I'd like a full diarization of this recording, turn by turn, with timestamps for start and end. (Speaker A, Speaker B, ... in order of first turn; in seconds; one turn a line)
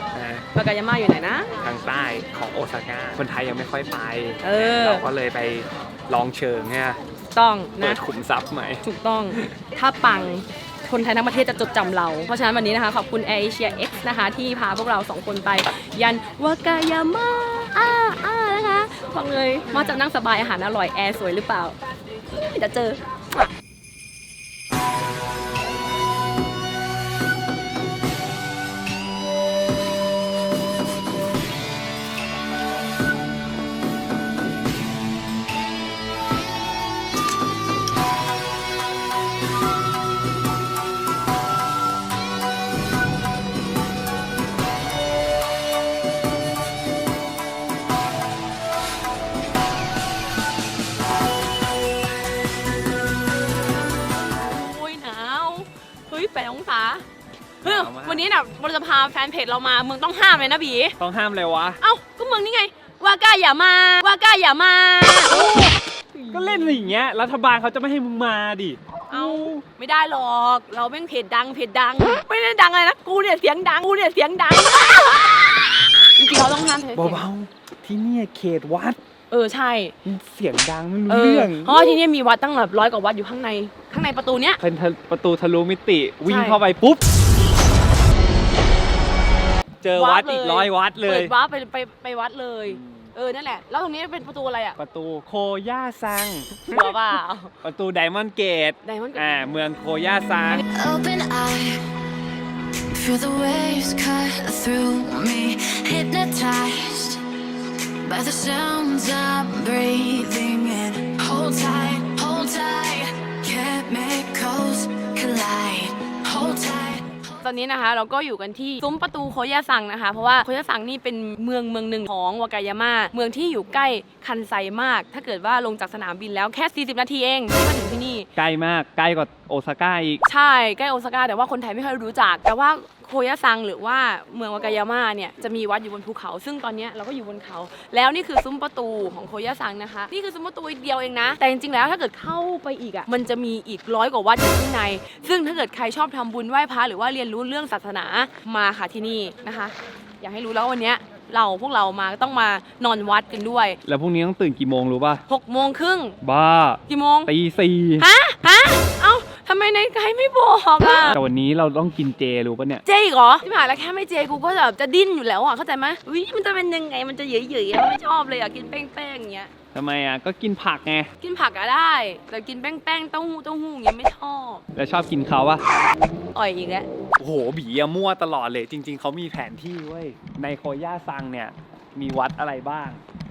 Speaker A: 0.1-0.5
Speaker B: 0.5-1.5
Speaker A: 1.6-7.0
Speaker B: 4.4-5.1
Speaker B: 7.3-8.0
Speaker A: 7.8-9.4
Speaker B: 8.8-21.8
Speaker B: 22.3-23.5
Speaker B: 54.2-57.0
Speaker B: 57.6-61.0
Speaker A: 57.6-58.3
Speaker A: 61.0-61.8
Speaker B: 61.8-65.6
Speaker A: 65.3-65.8
Speaker B: 66.1-67.0
Speaker A: 66.3-69.6
Speaker B: 69.1-77.2
Speaker A: 77.0-79.0
Speaker B: 79.3-79.9
Speaker A: 80.0-82.0
Speaker B: 81.1-84.6
Speaker A: 84.6-87.0
Speaker B: 86.2-86.6
Speaker A: 89.8-91.3
Speaker B: 89.9-94.8
Speaker A: 92.7-93.1
Speaker A: 94.8-96.9
Speaker B: 96.7-97.5
Speaker A: 97.6-100.6
Speaker B: 98.8-99.4
Speaker C: 100.7-101.8
Speaker C: 102.9-107.2
Speaker C: 108.0-117.1
Speaker B: 117.4-128.3
Speaker A: 128.3-130.2
Speaker B: 130.2-153.8
Speaker A: 153.8-155.2
Speaker B: 155.3-156.2
Speaker A: 156.2-158.1
Speaker B: 156.9-157.3
Speaker B: 158.0-161.2
Speaker A: 160.9-162.8
Speaker B: 162.8-169.5
Speaker A: 169.7-171.1
Speaker B: 171.2-174.6
Speaker A: 174.8-175.6
Speaker B: 176.3-176.9
Speaker A: 177.2-183.0